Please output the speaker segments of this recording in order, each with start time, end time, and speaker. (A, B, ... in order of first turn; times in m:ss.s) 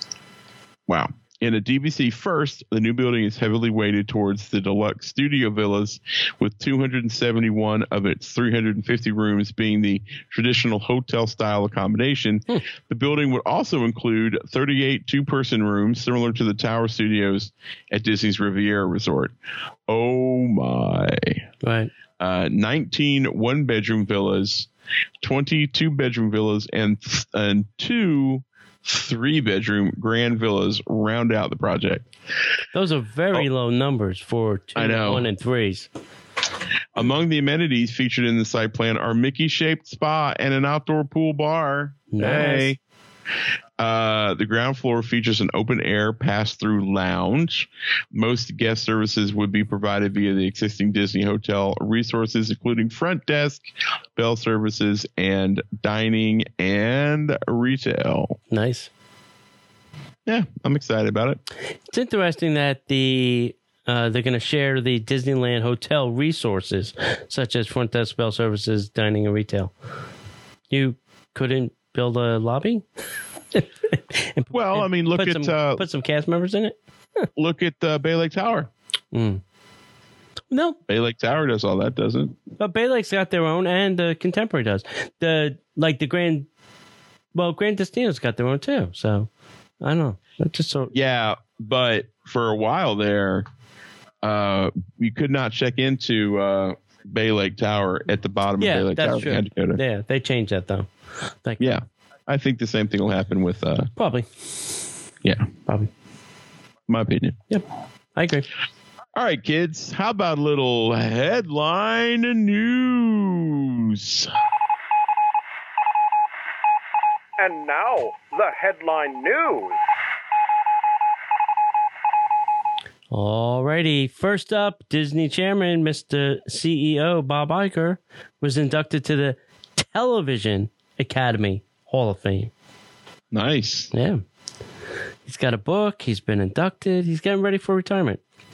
0:00.9-0:19.3 A
0:19.9-0:21.5 A
0:21.6-0:21.9 B
0:22.2-0:24.7 A
0:25.2-0:32.1 A
0:32.7-0:35.9 B
0:34.8-0:35.2 A
0:37.0-0:42.8 A
0:42.1-0:42.7 B
0:43.8-0:58.4 A
0:58.5-0:58.9 B
1:00.3-1:01.4 A
1:01.9-1:09.7 B
1:10.7-1:12.8 B
1:13.5-1:17.3 B
1:14.5-1:15.8 A
1:17.4-1:18.7 A
1:19.1-1:19.4 B
1:20.5-1:20.8 B
1:20.9-1:22.4 A
1:22.6-1:26.5 B
1:27.4-1:29.3 B
1:29.8-1:30.9 B
1:30.9-1:33.5 A
1:34.2-1:39.8 A
1:38.6-1:40.9 B
1:41.4-1:41.8 B
1:41.6-1:43.9 A
1:44.0-1:44.5 B
1:45.2-1:45.5 A
1:46.9-1:47.4 A
1:48.2-1:48.5 B
1:49.2-1:54.3 A
1:57.4-1:59.8 C
2:03.1-2:12.5 B
2:13.3-2:13.9 A
2:13.9-2:14.2 B
2:15.3-2:18.2 B